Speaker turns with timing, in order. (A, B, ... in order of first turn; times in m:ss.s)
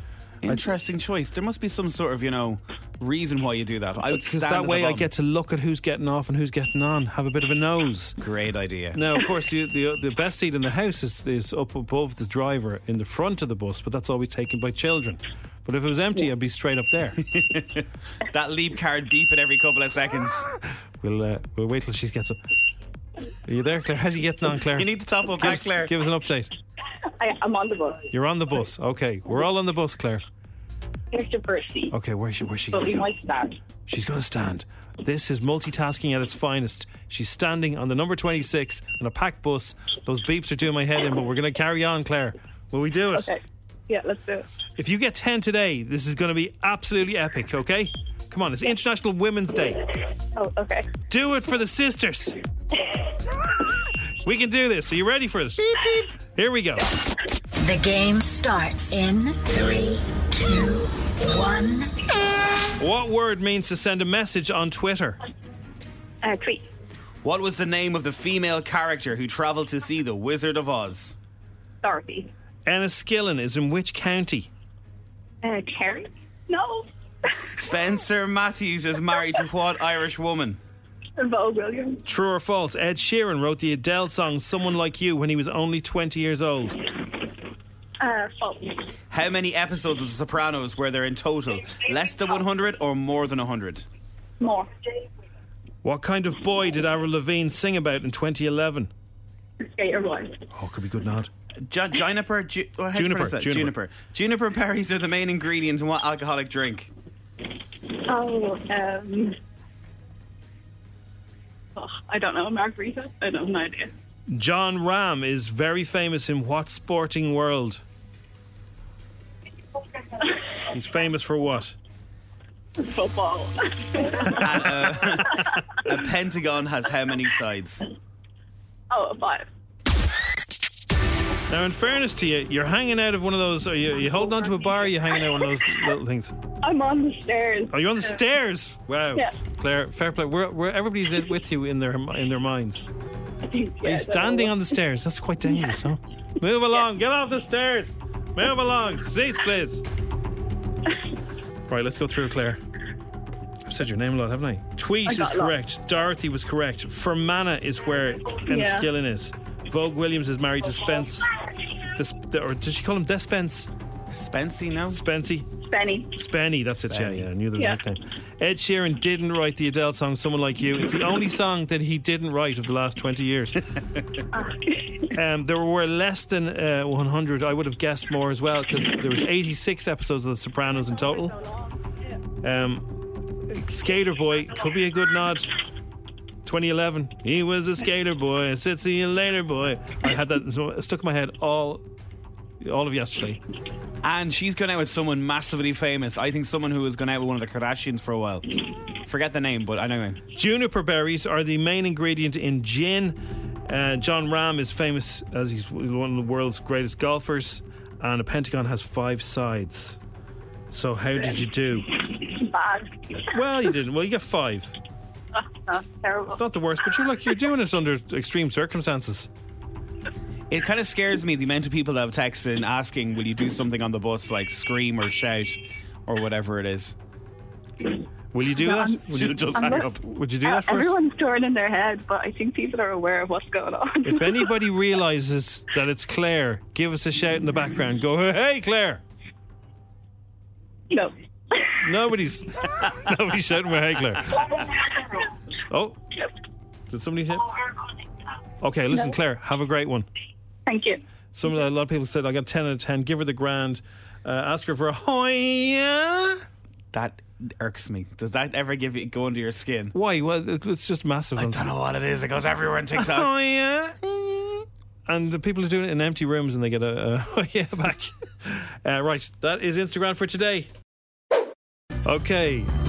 0:00.4-0:05.1 A
0:04.1-0:08.2 B
0:08.2-0:09.0 A
0:08.9-0:17.2 B
0:17.3-0:20.5 A
0:21.0-0:22.4 B
0:23.4-0:26.5 B
0:24.7-0:25.9 A
0:27.2-0:28.1 C
0:28.1-0:30.2 B
0:31.1-0:31.9 C
0:31.9-0:33.1 B
0:32.7-0:33.5 C
0:33.9-0:43.3 B
0:43.1-0:44.4 C
0:44.8-0:49.8 B
0:50.4-0:50.9 C
0:51.1-0:52.4 B
0:54.2-0:56.8 B
0:57.6-1:01.9 D
1:02.8-1:05.2 B
1:06.2-1:06.6 C
1:07.2-1:11.2 A
1:11.8-1:12.3 C
1:12.6-1:14.5 B
1:15.4-1:17.7 C
1:17.6-1:20.6 A
1:21.2-1:22.0 C
1:22.0-1:26.8 B
1:28.0-1:28.8 C
1:29.1-1:33.9 A
1:34.4-1:34.7 C
1:35.8-1:38.9 B
1:39.6-1:40.4 C
1:40.5-1:41.3 B
1:41.7-1:46.9 A
1:42.9-1:43.7 B
1:48.0-1:49.4 C
1:51.8-1:53.9 C
1:54.3-1:57.8 B
2:00.7-2:01.8 B
2:02.8-2:05.6 C
2:04.3-2:07.8 A
2:08.9-2:09.5 C
2:11.5-2:16.3 B
2:14.2-2:16.0 C
2:16.6-2:18.2 C
2:17.7-2:22.9 B
2:23.4-2:24.7 C
2:23.8-2:29.8 B
2:25.5-2:25.8 C
2:31.7-2:32.6 B
2:33.6-2:41.2 B
2:35.0-2:35.6 C
2:38.3-2:38.9 C
2:42.0-2:43.7 B
2:44.1-2:45.0 A
2:44.9-2:45.5 B
2:45.6-2:46.2 C
2:46.2-2:53.6 B
2:46.9-2:47.3 A
2:47.6-2:47.8 C
2:54.3-2:55.1 C
2:55.1-3:01.3 B
3:02.4-3:02.8 B
3:03.5-3:05.5 B
3:06.4-3:11.8 B
3:12.6-3:13.4 B
3:14.0-3:18.5 A
3:19.0-3:20.2 A
3:20.3-3:30.0 B
3:30.7-3:31.9 B
3:32.1-3:33.0 C
3:33.3-3:34.7 B
3:35.7-3:36.4 C
3:36.3-3:39.3 B
3:40.5-3:47.0 A
3:48.3-3:50.9 B
3:48.5-3:54.5 C
3:49.1-3:50.0 A
3:54.0-3:59.0 B
4:00.9-4:01.8 C
4:01.8-4:04.4 B
4:05.7-4:06.0 B
4:06.9-4:07.5 B
4:08.6-4:10.1 B
4:10.7-4:11.0 C
4:11.3-4:16.4 B
4:16.9-4:19.9 A
4:19.9-4:21.6 B
4:21.4-4:23.3 A
4:23.0-4:30.7 B
4:32.0-4:32.7 B